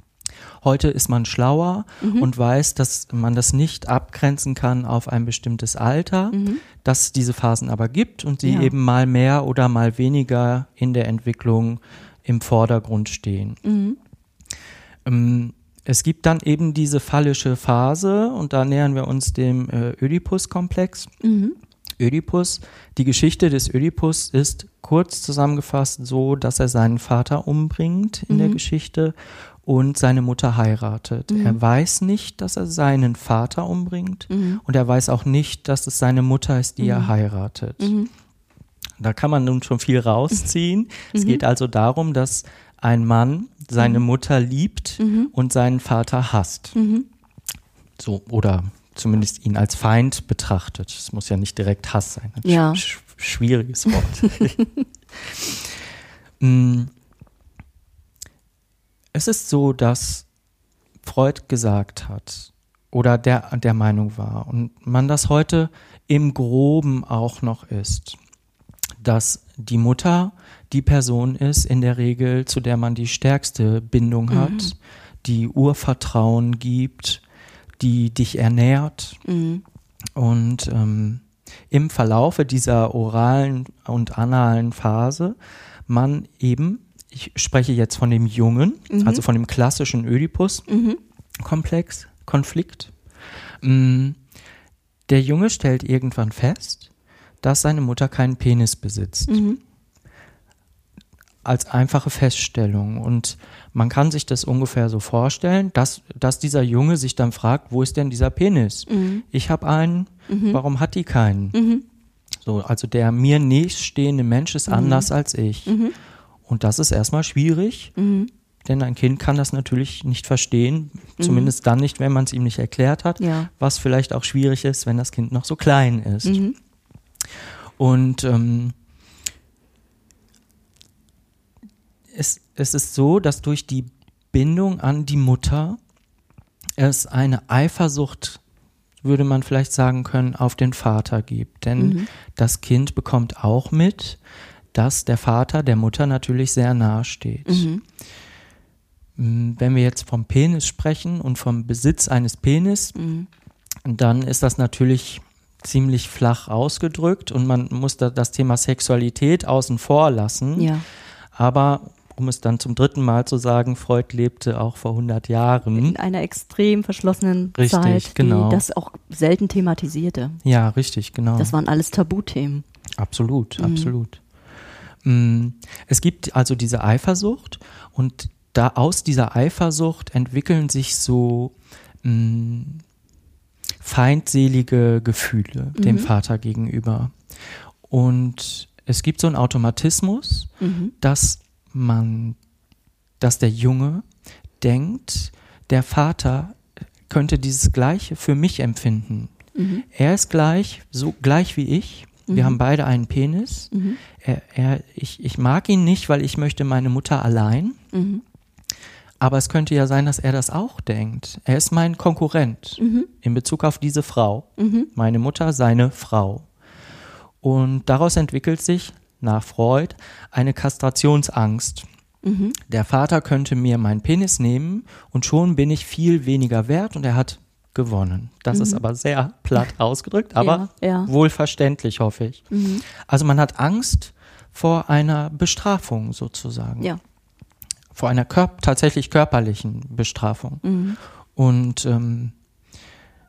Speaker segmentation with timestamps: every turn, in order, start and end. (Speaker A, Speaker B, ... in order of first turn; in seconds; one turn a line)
Speaker A: 0.6-13.6
Speaker B: 2.0-2.3
Speaker B: 6.3-6.6
Speaker B: 8.4-8.7
Speaker B: 13.6-14.0
Speaker A: 15.0-21.1
Speaker B: 21.2-21.6
Speaker A: 22.0-38.0
Speaker B: 28.3-28.6
Speaker B: 31.3-31.6
Speaker B: 34.3-34.6
Speaker B: 36.8-37.1
Speaker B: 37.8-38.1
Speaker A: 39.0-46.7
Speaker B: 41.1-41.4
Speaker B: 45.0-45.3
Speaker B: 46.7-47.0
Speaker A: 48.0-54.6
Speaker B: 52.4-52.8
Speaker B: 54.6-54.8
Speaker A: 55.1-55.8
Speaker A: 56.4-56.9
Speaker A: 59.1-60.2
Speaker A: 61.0-68.2
Speaker A: 69.0-77.2
Speaker B: 74.3-74.7
Speaker A: 77.8-79.2
Speaker B: 79.2-79.6
Speaker A: 80.2-85.3
Speaker A: 85.9-90.7
Speaker B: 88.9-89.2
Speaker B: 90.7-91.0
Speaker A: 91.4-92.9
Speaker A: 93.6-94.2
Speaker A: 95.1-96.9
Speaker A: 97.4-99.5
Speaker B: 99.3-99.6
Speaker A: 101.4-111.6
Speaker B: 108.9-109.2
Speaker B: 110.3-110.6
Speaker B: 111.5-111.8
Speaker A: 112.4-115.8
Speaker B: 114.7-115.1
Speaker B: 115.7-115.9
Speaker A: 116.5-117.9
Speaker B: 118.0-118.3
Speaker A: 118.6-126.4
Speaker B: 121.2-121.5
Speaker B: 123.2-123.5
Speaker B: 126.2-126.5
Speaker A: 127.8-128.7
Speaker A: 132.1-135.8
Speaker A: 136.8-138.4
Speaker A: 139.0-144.2
Speaker B: 141.8-142.1
Speaker A: 144.7-147.7
Speaker B: 147.5-147.8
Speaker A: 149.2-152.9
Speaker B: 152.9-153.3
Speaker A: 153.8-160.7
Speaker B: 160.6-160.8
Speaker A: 161.3-165.9
Speaker B: 165.7-170.4
Speaker A: 167.6-168.6
Speaker A: 170.4-171.6
Speaker B: 171.4-172.6
Speaker A: 173.0-174.2
Speaker B: 173.6-173.9
Speaker A: 175.0-182.8
Speaker A: 183.8-187.2
Speaker B: 185.8-186.1
Speaker A: 187.9-190.5
Speaker B: 190.6-190.9
Speaker A: 191.0-192.4
Speaker A: 193.2-194.1
Speaker A: 194.6-199.3
Speaker B: 199.6-199.8
Speaker A: 199.9-207.8
Speaker B: 202.3-202.6
Speaker B: 203.7-204.0
Speaker B: 207.9-208.2
Speaker A: 209.2-216.5
Speaker B: 212.8-213.1
Speaker B: 214.6-214.9
Speaker A: 217.4-221.9
Speaker B: 222.2-222.6
Speaker A: 222.7-236.9
Speaker B: 228.5-228.8
Speaker B: 230.4-231.1
Speaker B: 232.5-232.8
Speaker A: 237.9-240.6
Speaker B: 240.6-241.0
Speaker A: 241.3-242.3